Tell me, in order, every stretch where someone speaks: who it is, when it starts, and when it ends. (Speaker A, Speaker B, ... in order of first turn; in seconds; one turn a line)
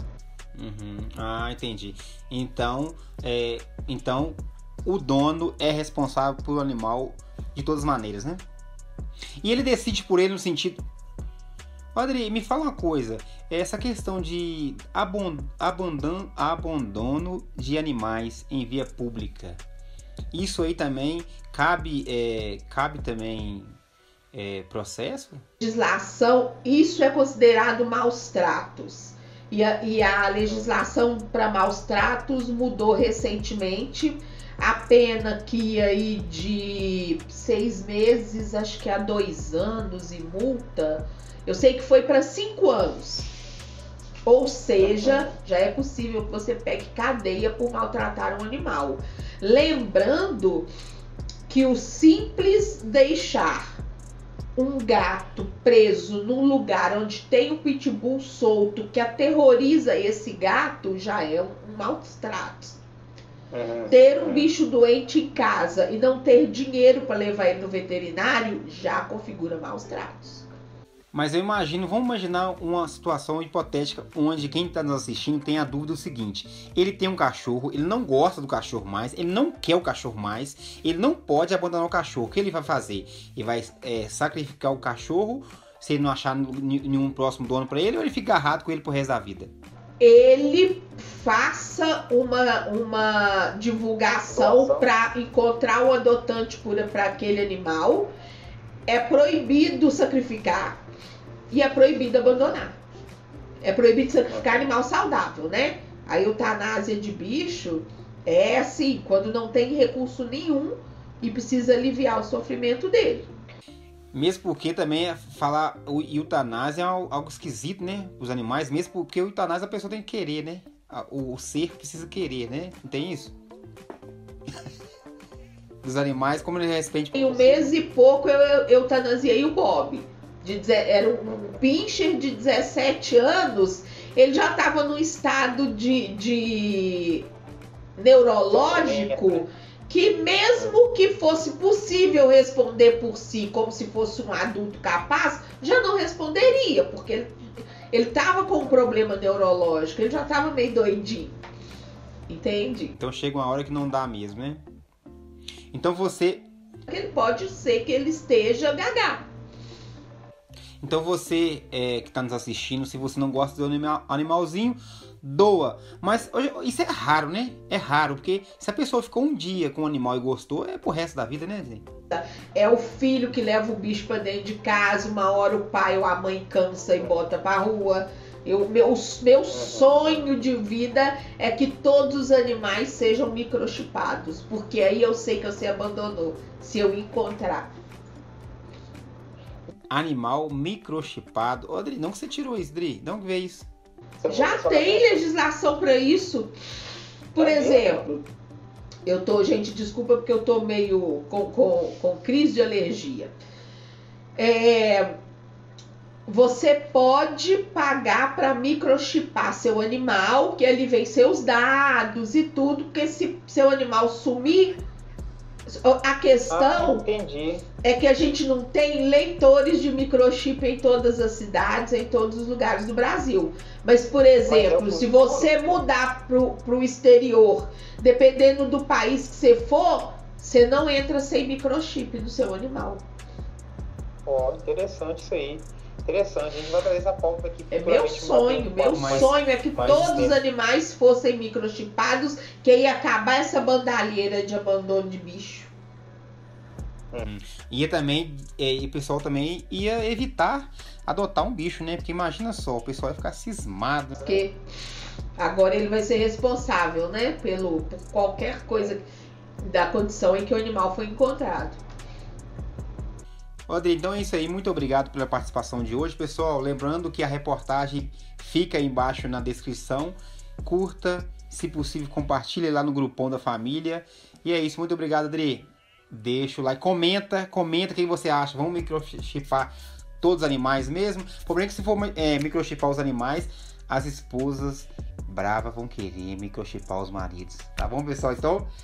Speaker A: 0.5-8.4
Speaker A: 9.4-10.8
Speaker A: 11.9-19.6
Speaker A: 20.3-23.8
Speaker A: 24.3-25.4
Speaker B: 25.6-43.3
Speaker B: 44.2-50.7
Speaker B: 51.5-53.8
Speaker B: 54.5-62.8
Speaker C: 63.5-64.5
Speaker B: 63.9-70.5
Speaker A: 71.1-89.5
Speaker B: 90.0-98.1
Speaker C: 94.2-94.9
Speaker B: 98.9-100.8
Speaker B: 101.5-102.8
Speaker B: 103.6-113.3
Speaker C: 104.3-104.7
Speaker A: 114.1-123.3
Speaker A: 125.8-127.7
Speaker B: 127.1-137.3
Speaker B: 138.0-147.3
Speaker C: 138.5-139.5
Speaker B: 147.9-151.3
Speaker B: 152.3-152.9
Speaker A: 153.0-154.6
Speaker A: 155.7-156.5
Speaker B: 156.9-159.3
Speaker A: 160.8-171.8
Speaker B: 172.1-187.7
Speaker C: 179.5-180.1
Speaker A: 189.9-193.7
Speaker C: 194.2-195.2
Speaker B: 194.3-196.5
Speaker B: 197.3-198.3
Speaker C: 197.4-198.1
Speaker B: 199.1-203.3
Speaker B: 204.3-205.1
Speaker B: 206.3-214.8
Speaker B: 215.7-217.1
Speaker C: 216.5-217.6
Speaker B: 217.8-233.1
Speaker C: 224.4-225.7
Speaker C: 234.2-240.4
Speaker B: 237.7-245.7
Speaker A: 238.9-240.3
Speaker A: 247.2-254.4
Speaker B: 254.2-254.5
Speaker B: 255.4-259.0
Speaker B: 259.6-261.8
Speaker A: 263.7-288.7